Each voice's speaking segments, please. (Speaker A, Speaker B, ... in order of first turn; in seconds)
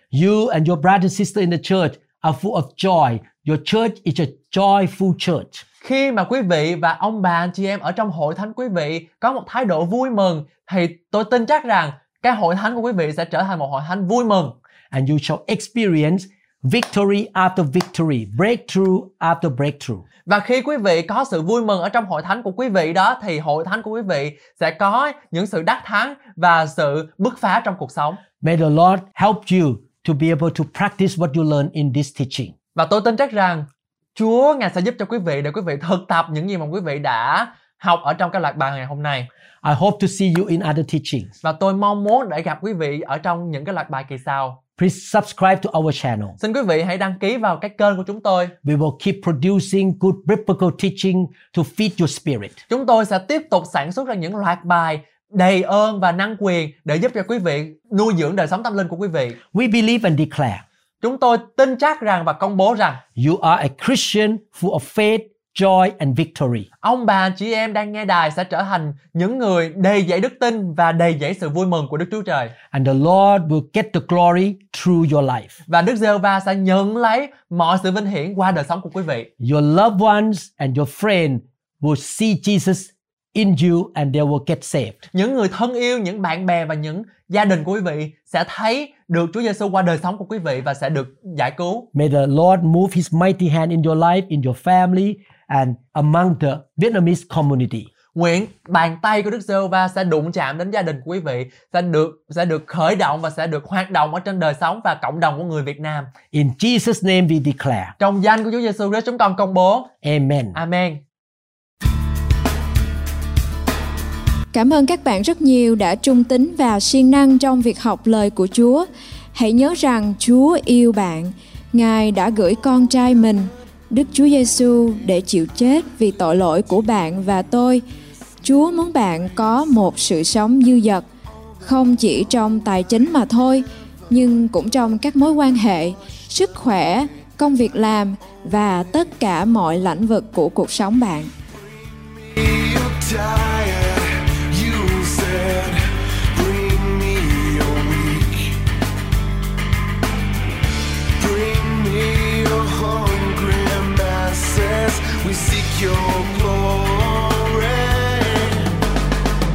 Speaker A: 0.1-5.6, 14.9-20.0, 28.4-32.5, 39.6-41.3, 44.8-46.4, 48.6-52.6, 59.5-60.6, 63.2-66.7, 72.7-75.5, 79.4-85.1, 91.9-97.9, 106.3-107.9, 110.0-110.6
Speaker B: 5.8-14.6, 20.3-28.2, 32.8-39.3, 41.4-44.6, 46.4-48.5, 52.7-59.4, 61.0-63.0, 66.8-72.5, 75.7-79.3, 85.1-91.9, 98.1-106.1, 108.0-109.9, 110.5-111.0
Speaker C: 114.5-127.8, 128.4-131.1, 131.6-141.3
Speaker D: 141.5-148.6, 151.2-158.8